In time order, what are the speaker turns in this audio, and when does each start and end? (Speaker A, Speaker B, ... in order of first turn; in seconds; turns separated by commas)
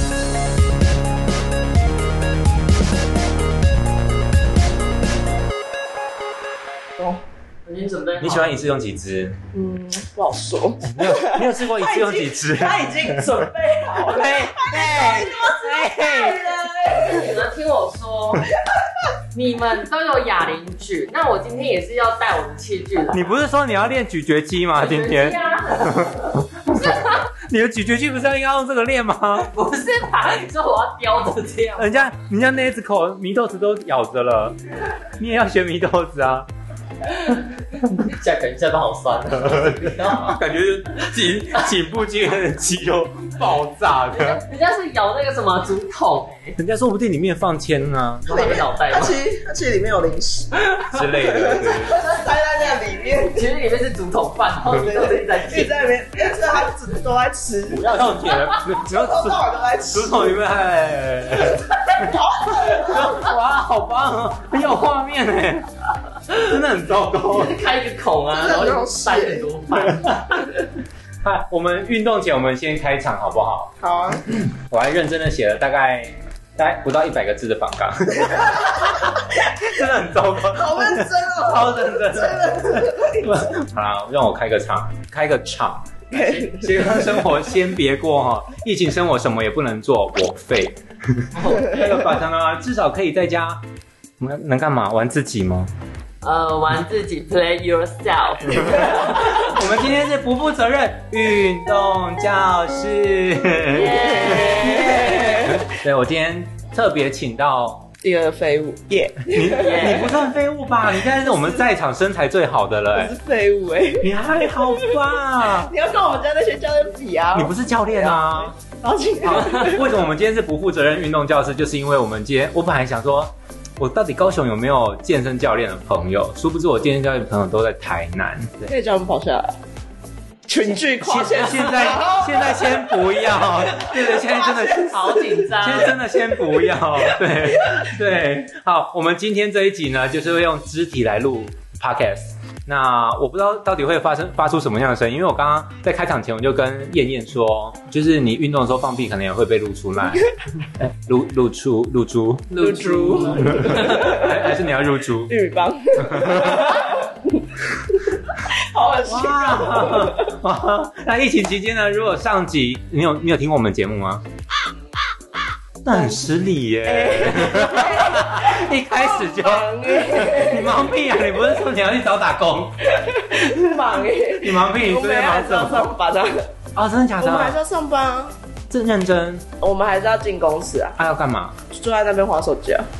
Speaker A: 7.7-8.6, Speaker B: 8.2-9.4, Speaker C: 9.5-17.3, Speaker B: 10.8-13.4, Speaker B: 14.0-16.5, Speaker A: 16.9-18.5, Speaker A: 19.3-23.3, Speaker B: 23.1-29.5, Speaker A: 24.8-27.3, Speaker A: 29.4-32.1, Speaker B: 31.8-34.6, Speaker B: 35.2-36.5, Speaker A: 37.1-40.4, Speaker B: 39.4-44.4, Speaker A: 44.1-46.5, Speaker B: 46.6-48.2, Speaker A: 48.2-49.2, Speaker C: 48.3-53.4, Speaker B: 50.9-52.0, Speaker A: 53.3-55.8, Speaker C: 54.6-57.9, Speaker B: 57.7-65.7, Speaker C: 58.7-60.4, Speaker C: 62.0-63.2, Speaker B: 66.3-67.6, Speaker A: 67.3-70.5, Speaker C: 68.3-69.4, Speaker B: 69.9-70.3, Speaker B: 71.2-73.7, Speaker C: 73.8-74.2, Speaker B: 74.3-93.6, Speaker C: 80.5-83.5, Speaker C: 86.1-87.0, Speaker A: 91.3-91.8, Speaker B: 94.2-95.7, Speaker A: 96.2-99.4, Speaker B: 98.6-107.9, Speaker A: 103.7-105.4, Speaker C: 104.2-105.6, Speaker C: 108.0-110.0, Speaker B: 109.2-113.1, Speaker A: 109.5-110.2, Speaker C: 111.1-111.6, Speaker C: 112.9-119.8, Speaker B: 114.0-115.7, Speaker B: 117.3-118.5, Speaker B: 119.2-128.7, Speaker C: 128.7-129.6, Speaker C: 130.5-135.2, Speaker B: 131.0-152.6, Speaker A: 134.9-136.0, Speaker A: 152.5-154.2, Speaker C: 152.6-154.4, Speaker B: 153.4-155.3, Speaker C: 155.3-157.4, Speaker B: 156.0-156.8, Speaker C: 158.3-160.3, Speaker B: 159.1-164.2, Speaker B: 165.8-172.8, Speaker C: 165.9-166.2, Speaker C: 166.8-170.9, Speaker C: 172.9-176.5, Speaker B: 174.4-175.9, Speaker B: 176.7-177.6, Speaker C: 177.2-178.3, Speaker B: 178.7-179.4, Speaker C: 179.6-181.0, Speaker B: 181.0-181.6, Speaker C: 181.7-182.8